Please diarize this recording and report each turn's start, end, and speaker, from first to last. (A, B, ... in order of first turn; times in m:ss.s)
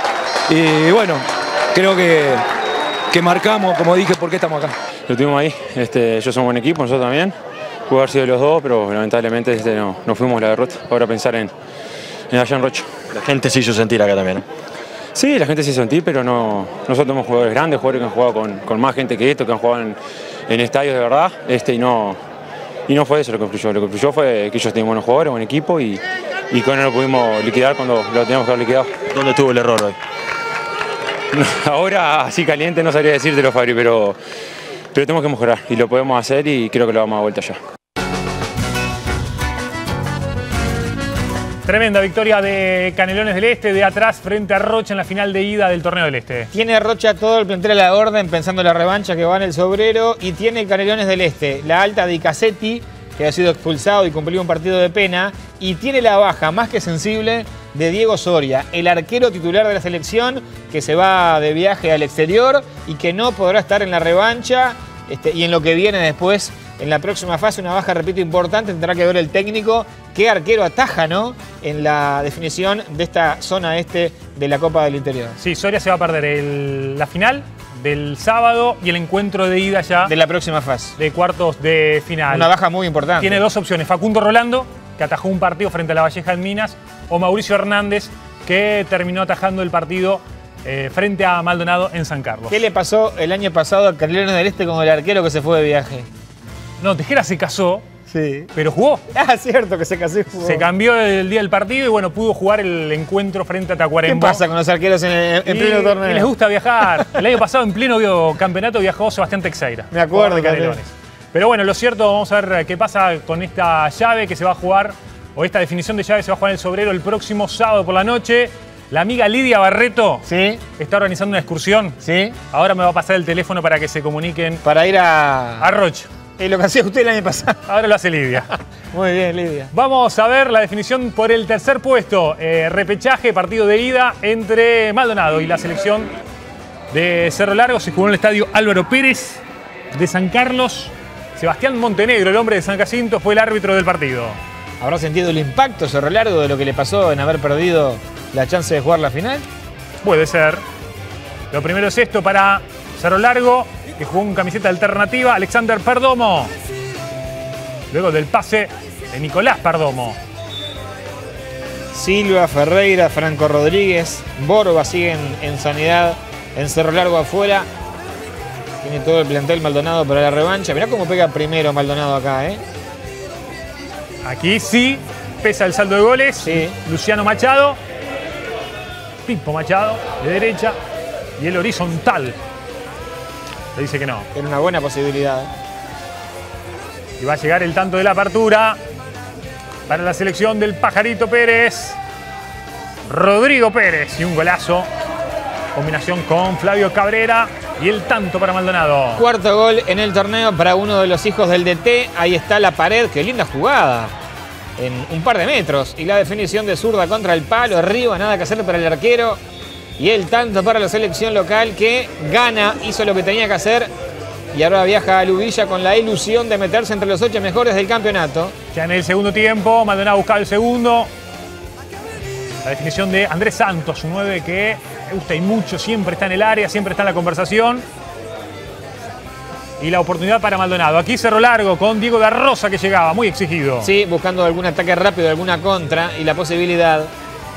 0:00.5-0:02.4 A
0:03.1-0:04.7 A
0:05.1-0:07.3 B
0:07.9-0:11.5 B
0:12.3-0:12.9 B
0:13.1-0:14.4 C
0:15.1-0:20.0 B
0:20.5-0:22.2 B
0:22.9-0:29.0 B
0:29.1-0:30.0 C
0:31.3-0:34.2 B
0:34.9-0:37.6 B
0:41.6-0:46.5 D
0:46.5-1:15.4 E
1:15.4-1:20.1 D
1:20.0-1:20.9 E
1:21.0-1:22.5 D
1:22.3-1:23.4 E
1:23.2-1:32.6 D
1:32.5-1:36.1 E
1:36.8-1:37.8 D
1:38.1-1:38.5 E
1:38.5-1:39.0 D
1:39.1-1:40.6 E
1:40.4-1:44.4 D
1:44.0-1:46.3 E
1:45.4-2:02.0 D
1:49.9-1:50.8 E
2:00.2-2:00.6 E
2:02.0-2:02.4 E
2:02.5-2:04.6 D
2:04.6-2:05.7 E
2:05.6-2:06.1 D
2:06.4-2:07.6 E
2:07.7-2:08.5 D
2:08.9-2:09.7 E
2:09.7-2:16.1 D
2:16.9-2:19.4 D
2:19.9-2:24.4 D
2:24.8-2:29.4 E
2:30.0-2:30.6 D
2:31.5-2:36.5 D
2:37.9-2:40.2 D
2:41.9-2:47.7 E
2:48.8-2:52.6 E
2:54.2-2:57.8 D
2:56.4-2:56.7 E
2:59.2-3:00.8 D
3:01.4-3:02.4 D
3:03.7-3:04.3 D
3:04.3-3:05.5 E
3:07.2-3:08.8 D
3:09.9-3:12.0 D
3:13.0-3:14.9 D
3:15.7-3:19.2 D
3:19.2-3:24.1 E
3:24.8-3:29.4 E
3:30.0-3:33.9 E
3:34.5-3:38.5 E
3:38.7-3:41.1 D
3:42.6-3:47.8 D
3:49.8-3:53.9 D
3:53.8-3:57.1 E